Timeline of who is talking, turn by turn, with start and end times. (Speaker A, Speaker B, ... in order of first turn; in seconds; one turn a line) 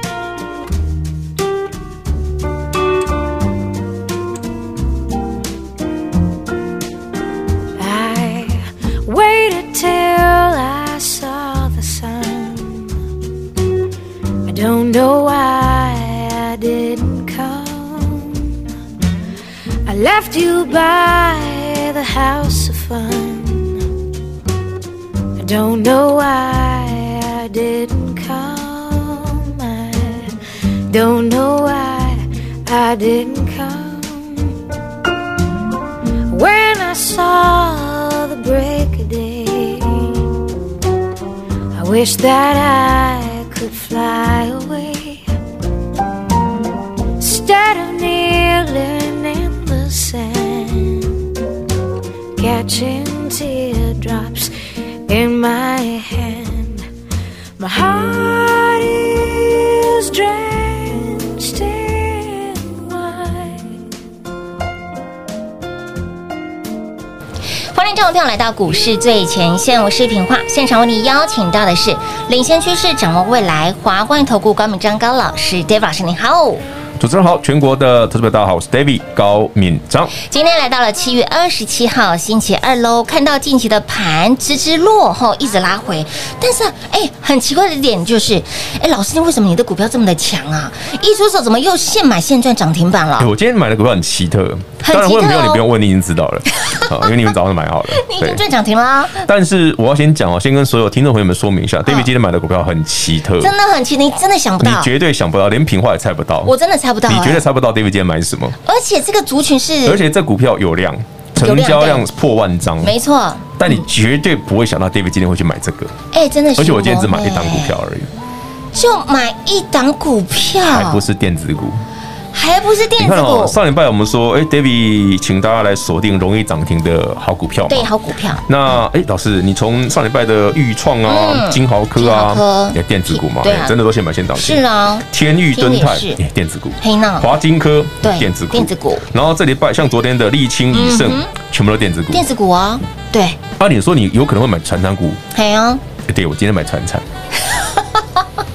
Speaker A: 7.8-12.8
Speaker A: 14.4-18.4
Speaker A: 19.9-23.8
Speaker A: 25.4-30.3
Speaker A: 30.9-34.5
Speaker A: 36.3-40.2
Speaker A: 41.7-45.3
Speaker A: 47.2-51.1
Speaker A: 52.4-54.5
Speaker A: 55.1-56.8
Speaker A: 57.6-63.6
Speaker B: 67.7-76.6
Speaker C: 77.0-80.1
Speaker B: 80.2-93.3
Speaker C: 93.2-98.4
Speaker B: 94.8-95.6
Speaker B: 96.6-96.9
Speaker B: 97.9-99.2
Speaker C: 99.2-103.5
Speaker B: 101.8-102.1
Speaker B: 103.4-104.9
Speaker C: 104.6-106.5
Speaker B: 106.4-107.4
Speaker C: 107.0-108.6
Speaker B: 108.6-110.0
Speaker C: 109.8-112.9
Speaker B: 111.4-112.1
Speaker B: 112.8-113.8
Speaker C: 113.6-115.9
Speaker B: 116.1-117.7
Speaker C: 116.6-118.1
Speaker B: 118.7-121.0
Speaker C: 120.6-121.8
Speaker B: 122.3-123.6
Speaker C: 123.0-127.9
Speaker B: 127.7-128.4
Speaker C: 128.4-142.2
Speaker B: 131.1-133.7
Speaker B: 134.4-136.2
Speaker B: 136.8-137.3
Speaker B: 138.0-139.0
Speaker B: 140.7-141.3
Speaker B: 142.1-143.4
Speaker C: 143.6-145.2
Speaker B: 145.3-145.8
Speaker C: 146.1-147.0
Speaker B: 147.4-148.2